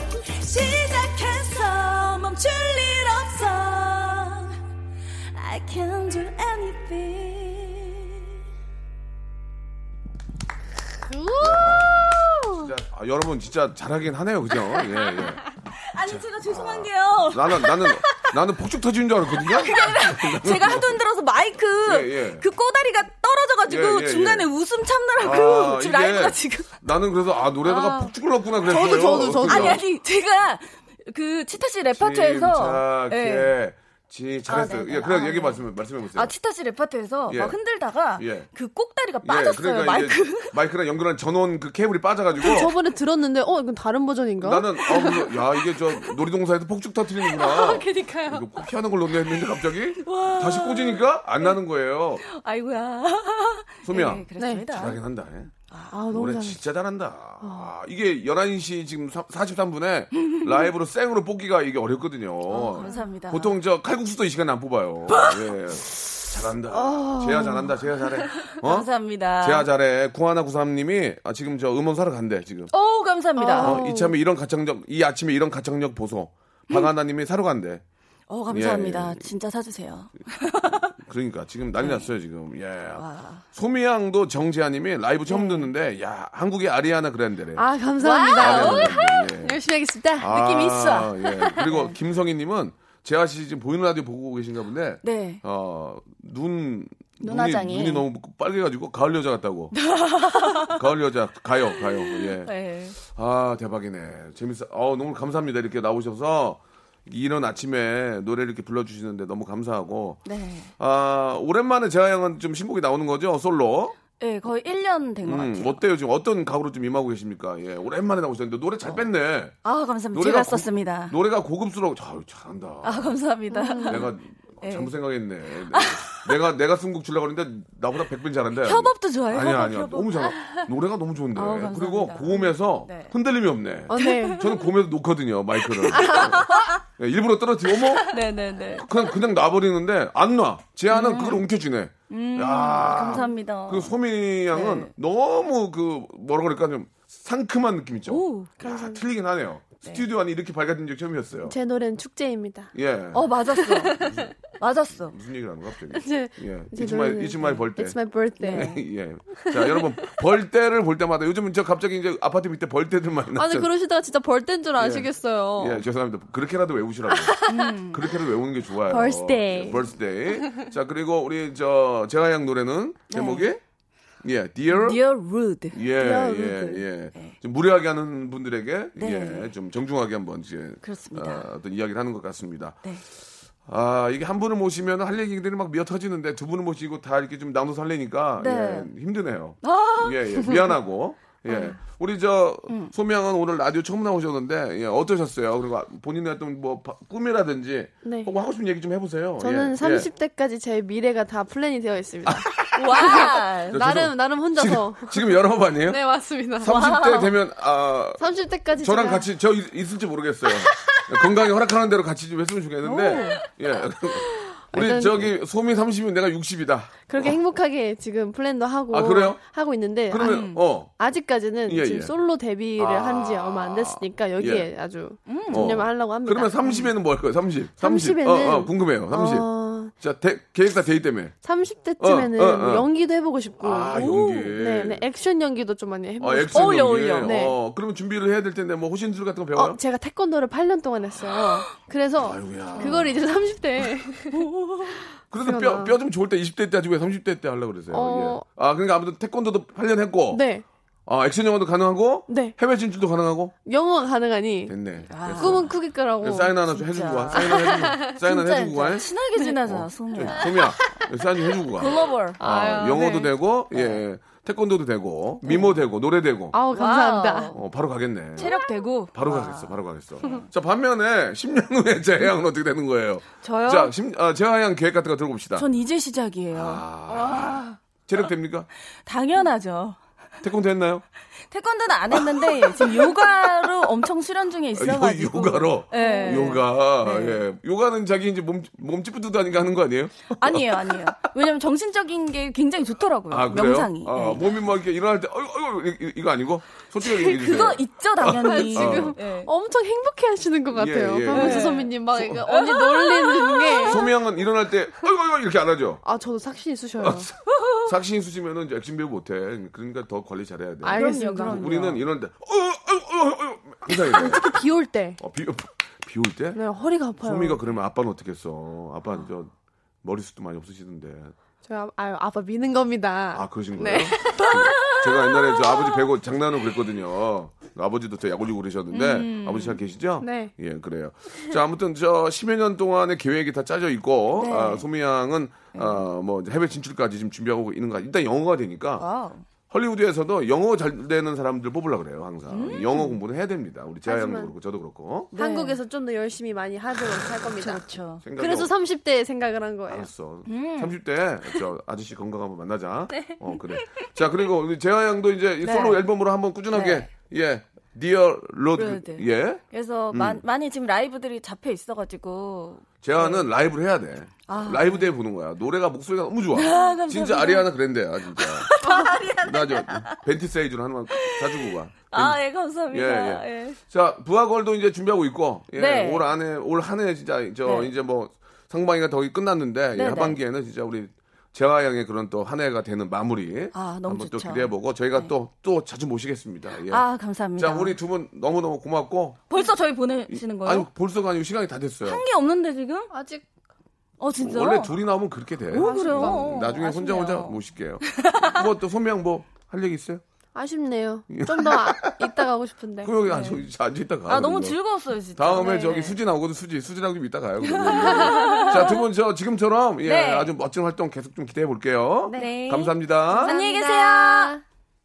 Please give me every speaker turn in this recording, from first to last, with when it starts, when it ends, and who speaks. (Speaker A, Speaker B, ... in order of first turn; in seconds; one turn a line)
Speaker A: 0.4-4.6
Speaker A: 5.3-8.2
Speaker B: 11.1-12.6
Speaker C: 11.4-15.4
Speaker A: 14.7-15.3
Speaker A: 15.9-18.3
Speaker C: 16.0-21.0
Speaker A: 19.4-26.7
Speaker C: 21.8-22.4
Speaker C: 23.7-24.5
Speaker C: 25.2-29.8
Speaker A: 27.6-28.1
Speaker B: 28.6-29.8
Speaker A: 29.0-33.5
Speaker C: 31.9-36.3
Speaker A: 34.5-35.6
Speaker A: 36.1-40.5
Speaker C: 37.3-37.6
Speaker C: 38.1-38.5
Speaker C: 39.2-42.7
Speaker B: 42.4-45.1
Speaker C: 44.4-52.2
Speaker A: 44.9-45.3
Speaker B: 47.6-48.4
Speaker A: 50.0-51.5
Speaker A: 52.2-55.0
Speaker C: 53.8-55.5
Speaker B: 54.4-54.6
Speaker A: 55.7-55.9
Speaker B: 55.9-56.6
Speaker C: 56.1-68.9
Speaker B: 57.4-57.7
Speaker A: 62.5-63.6
Speaker B: 66.7-67.7
Speaker A: 68.5-69.7
Speaker C: 69.4-72.7
Speaker A: 72.7-73.8
Speaker B: 73.4-74.2
Speaker C: 73.6-77.8
Speaker A: 78.3-80.9
Speaker C: 78.5-79.2
Speaker C: 81.0-87.6
Speaker A: 81.8-82.1
Speaker A: 82.9-83.4
Speaker A: 85.3-85.7
Speaker B: 87.6-91.0
Speaker A: 88.0-89.0
Speaker C: 88.3-89.6
Speaker C: 90.2-99.8
Speaker A: 90.4-92.0
Speaker A: 95.0-95.4
Speaker A: 97.2-98.1
Speaker A: 99.8-100.8
Speaker C: 100.6-110.2
Speaker A: 101.8-103.0
Speaker A: 110.2-110.7
Speaker C: 110.8-114.0
Speaker A: 114.2-115.8
Speaker C: 115.2-119.5
Speaker A: 119.6-121.2
Speaker C: 120.1-123.1
Speaker A: 122.8-124.1
Speaker B: 123.5-124.0
Speaker C: 123.8-138.1
Speaker A: 124.6-124.9
Speaker A: 125.7-126.3
Speaker A: 128.6-130.6
Speaker A: 131.3-133.1
Speaker B: 133.9-134.4
Speaker A: 133.9-134.7
Speaker A: 135.7-136.7
Speaker A: 138.1-138.9
Speaker C: 138.7-151.5
Speaker A: 140.9-141.4
Speaker A: 142.1-143.9
Speaker A: 144.5-144.9
Speaker A: 148.1-148.5
Speaker B: 148.6-149.0
Speaker B: 151.4-152.7
Speaker C: 152.7-153.2
Speaker A: 153.1-154.0
Speaker B: 153.6-154.1
Speaker C: 153.8-154.3
Speaker A: 154.6-155.2
Speaker C: 154.9-163.7
Speaker B: 155.9-158.7
Speaker A: 158.4-158.8
Speaker B: 163.3-165.8
Speaker C: 164.8-167.4
Speaker B: 167.2-167.5
Speaker A: 167.5-168.1
Speaker C: 167.9-173.6
Speaker B: 168.9-169.8
Speaker A: 173.1-173.5
Speaker C: 174.2-175.0
Speaker A: 174.7-175.8
Speaker C: 175.7-182.9
Speaker B: 176.0-176.8
Speaker A: 179.0-179.5
Speaker A: 180.8-181.5
Speaker C: 183.7-200.1
Speaker A: 188.4-188.9
Speaker A: 189.6-190.7
Speaker A: 191.5-191.8
Speaker A: 192.7-192.9
Speaker B: 198.0-198.3
Speaker B: 199.4-202.5
Speaker C: 202.2-206.0
Speaker A: 202.7-203.8
Speaker B: 203.0-206.7
Speaker C: 206.5-208.2
Speaker A: 206.6-207.3
Speaker B: 208.2-209.2
Speaker C: 208.8-217.3
Speaker A: 212.8-213.4
Speaker B: 214.2-215.3
Speaker B: 217.1-226.8
Speaker C: 218.9-219.4
Speaker C: 220.1-220.9
Speaker A: 220.2-220.6
Speaker C: 221.7-222.1
Speaker C: 222.8-224.7
Speaker A: 225.3-225.8
Speaker C: 225.5-231.3
Speaker B: 227.8-229.9
Speaker B: 231.4-237.5
Speaker C: 232.0-232.9
Speaker C: 233.6-235.0
Speaker A: 233.9-234.5
Speaker C: 236.2-239.8
Speaker A: 236.5-237.5
Speaker B: 239.5-244.4
Speaker C: 242.2-243.2
Speaker A: 244.3-245.0
Speaker C: 245.3-250.4
Speaker B: 245.4-245.9
Speaker B: 247.9-248.4
Speaker B: 250.3-250.6
Speaker C: 251.1-253.5
Speaker B: 252.3-252.6
Speaker B: 253.7-254.7
Speaker C: 254.7-259.1
Speaker A: 255.1-255.8
Speaker B: 255.3-256.5
Speaker A: 256.7-260.7
Speaker B: 257.4-258.1
Speaker C: 259.6-266.6
Speaker A: 261.8-262.4
Speaker B: 262.4-263.3
Speaker A: 263.7-264.0
Speaker A: 265.5-265.7
Speaker B: 266.5-267.5
Speaker A: 266.7-267.6
Speaker C: 267.5-268.5
Speaker A: 268.4-270.4
Speaker C: 269.1-275.6
Speaker A: 273.4-273.9
Speaker A: 275.5-276.8
Speaker C: 276.5-278.7
Speaker B: 277.3-277.6
Speaker A: 279.1-280.0
Speaker C: 280.4-281.0
Speaker A: 281.5-287.4
Speaker C: 282.1-282.9
Speaker C: 284.7-291.2
Speaker B: 285.9-286.6
Speaker A: 290.3-294.4
Speaker C: 293.3-299.1
Speaker A: 297.0-299.5
Speaker B: 298.5-304.0
Speaker C: 300.7-302.4
Speaker A: 301.3-304.1
Speaker C: 303.9-306.0
Speaker B: 306.0-307.3
Speaker C: 307.0-314.5
Speaker B: 310.8-311.6
Speaker A: 310.9-312.0
Speaker B: 313.9-315.2
Speaker C: 315.2-316.6
Speaker B: 316.5-317.6
Speaker C: 317.2-319.5
Speaker C: 320.0-321.3
Speaker B: 321.6-324.5
Speaker C: 323.3-339.0
Speaker A: 324.3-325.8
Speaker A: 328.9-329.8
Speaker B: 330.2-330.5
Speaker A: 334.4-334.9
Speaker A: 335.7-336.0
Speaker A: 339.0-339.4
Speaker C: 339.7-345.3
Speaker A: 342.5-343.2
Speaker B: 344.1-344.5
Speaker A: 345.3-345.8
Speaker B: 345.3-347.8
Speaker A: 347.6-348.2
Speaker C: 348.2-348.7
Speaker B: 348.4-350.1
Speaker C: 349.9-360.4
Speaker A: 350.5-350.9
Speaker A: 355.6-356.0
Speaker A: 356.7-357.1
Speaker A: 358.8-363.5
Speaker C: 363.0-372.4
Speaker A: 364.5-365.1
Speaker A: 366.5-367.7
Speaker A: 368.4-370.2
Speaker A: 371.1-373.8
Speaker C: 372.9-387.0
Speaker A: 375.7-376.3
Speaker A: 377.6-377.9
Speaker A: 379.9-380.4
Speaker A: 383.7-385.3
Speaker A: 386.9-388.0
Speaker C: 387.6-389.4
Speaker A: 389.5-390.9
Speaker C: 390.3-392.2
Speaker A: 392.0-393.1
Speaker B: 393.1-393.4
Speaker A: 394.2-394.9
Speaker C: 394.3-400.2
Speaker A: 395.7-398.6
Speaker B: 395.8-396.5
Speaker B: 400.5-403.1
Speaker C: 401.3-402.4
Speaker C: 403.0-404.8
Speaker A: 403.2-403.6
Speaker A: 404.3-406.2
Speaker C: 405.4-413.5
Speaker A: 407.6-409.0
Speaker B: 408.3-408.7
Speaker A: 410.0-410.5
Speaker B: 412.2-412.6
Speaker A: 412.3-414.6
Speaker B: 413.4-414.6